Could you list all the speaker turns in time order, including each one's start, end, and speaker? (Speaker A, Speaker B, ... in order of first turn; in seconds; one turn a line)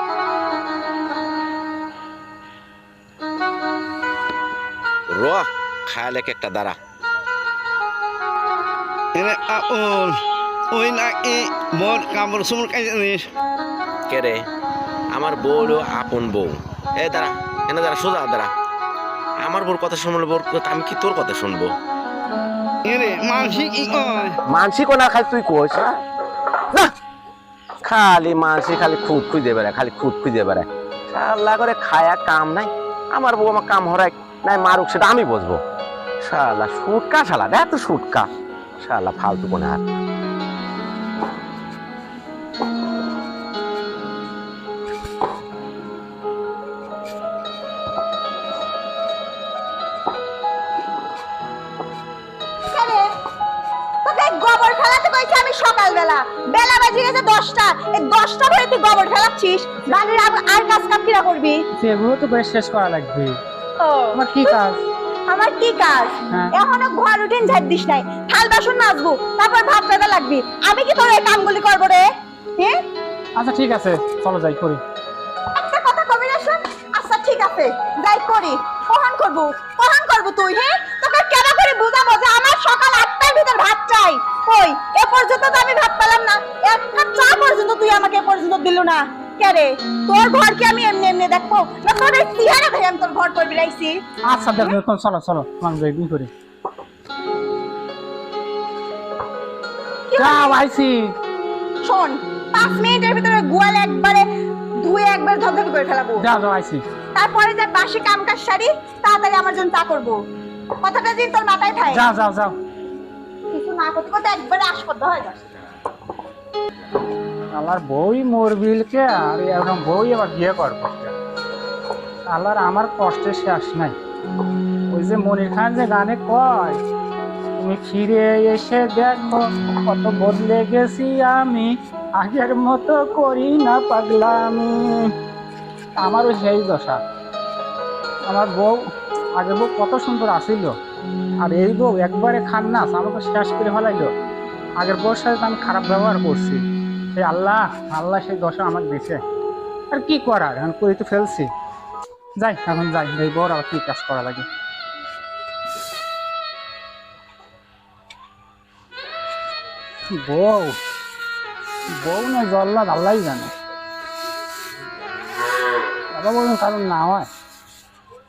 Speaker A: 5.1-6.8
Speaker B: 9.1-10.2
Speaker B: 10.7-13.3
Speaker A: 14.1-14.4
Speaker A: 15.1-18.5
Speaker A: 19.4-21.7
Speaker B: 22.8-24.4
Speaker A: 24.5-26.0
Speaker A: 27.8-35.6
Speaker A: 36.2-38.3
Speaker A: 38.8-39.8
Speaker C: 52.7-53.1
Speaker C: 54.0-61.6
Speaker D: 61.7-63.4
Speaker C: 63.8-64.2
Speaker D: 64.1-64.8
Speaker C: 65.3-72.0
Speaker D: 73.3-74.8
Speaker C: 75.5-94.0
Speaker D: 94.3-96.3
Speaker C: 100.1-100.5
Speaker D: 100.2-101.1
Speaker C: 101.8-104.3
Speaker C: 104.8-106.2
Speaker D: 106.2-106.8
Speaker C: 107.1-110.2
Speaker C: 110.8-112.0
Speaker D: 111.9-112.6
Speaker C: 113.5-115.4
Speaker D: 117.5-121.1
Speaker D: 122.3-124.0
Speaker D: 124.9-126.8
Speaker D: 127.6-135.1
Speaker D: 135.9-137.0
Speaker D: 138.3-138.8
Speaker D: 139.3-140.7
Speaker D: 141.4-144.1
Speaker D: 144.8-146.6
Speaker D: 147.1-149.2
Speaker D: 149.9-151.5
Speaker D: 152.4-154.4
Speaker D: 160.1-160.8
Speaker D: 162.0-163.5
Speaker D: 166.1-167.3